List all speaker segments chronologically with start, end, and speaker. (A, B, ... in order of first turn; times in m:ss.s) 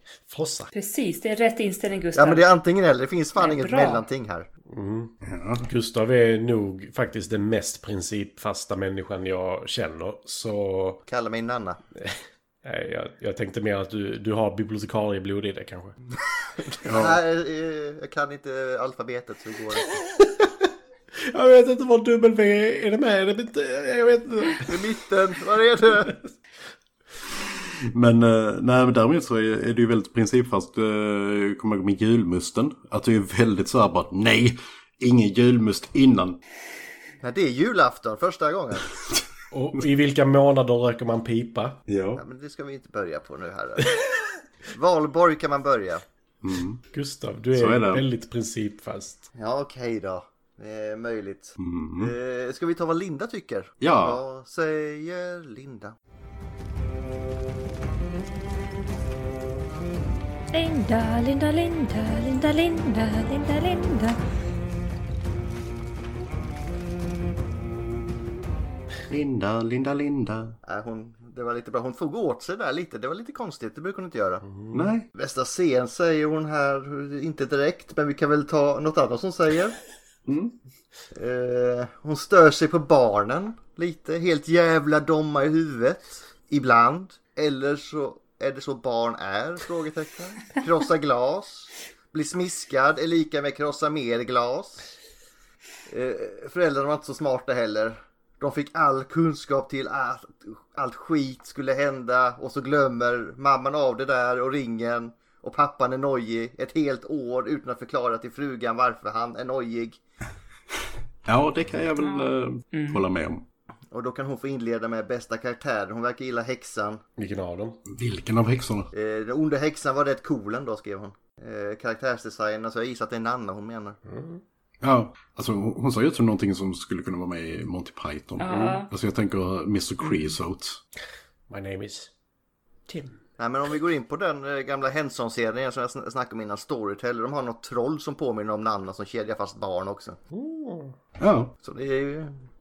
0:00.3-0:00.7 A
0:00.7-0:02.4 B
0:02.2-0:04.5 C
0:03.4-0:04.0 B
0:04.7-0:11.0 A
0:05.2-0:05.6 D
0:11.1-0:11.8 C
0:12.0-0:15.9 A
0:16.8-0:19.9 C
0:16.8-0:17.2 D
0:20.0-0:20.5 A
0:21.3-0:24.7 A
0:24.6-0:26.2 C
0:27.9-0:36.4 D
0:37.2-0:38.9 C
0:39.5-0:41.8 A
0:41.9-0:42.2 D
0:42.2-0:43.9 C
0:44.7-0:46.0 C
0:46.4-0:46.8 D
0:46.9-0:49.3 A
0:47.5-0:48.0 D
0:49.4-0:56.0 C
0:51.6-0:52.1 D
0:53.8-0:54.2 D
1:00.6-1:02.2 E
1:02.8-1:03.3 E
1:09.1-1:10.6 D
1:10.6-1:14.5 C
1:14.5-1:14.9 A
1:14.7-1:15.1 D
1:15.2-1:19.8 C
1:20.3-1:20.6 D
1:21.1-1:34.9 C
1:35.9-1:50.0 C
1:51.2-1:53.4 D
1:52.0-1:53.0 B
1:53.9-1:57.0 C
1:57.2-1:57.8 A
1:57.9-1:58.9 D
1:58.9-2:04.0 C
2:04.1-2:04.4 A
2:04.8-2:10.8 D
2:08.4-2:08.9 B
2:08.5-2:08.8 A
2:11.5-2:12.1 A
2:12.9-2:13.2 A
2:13.4-2:20.2 C
2:20.3-2:21.0 A
2:21.2-2:21.5 D
2:21.6-2:22.3 C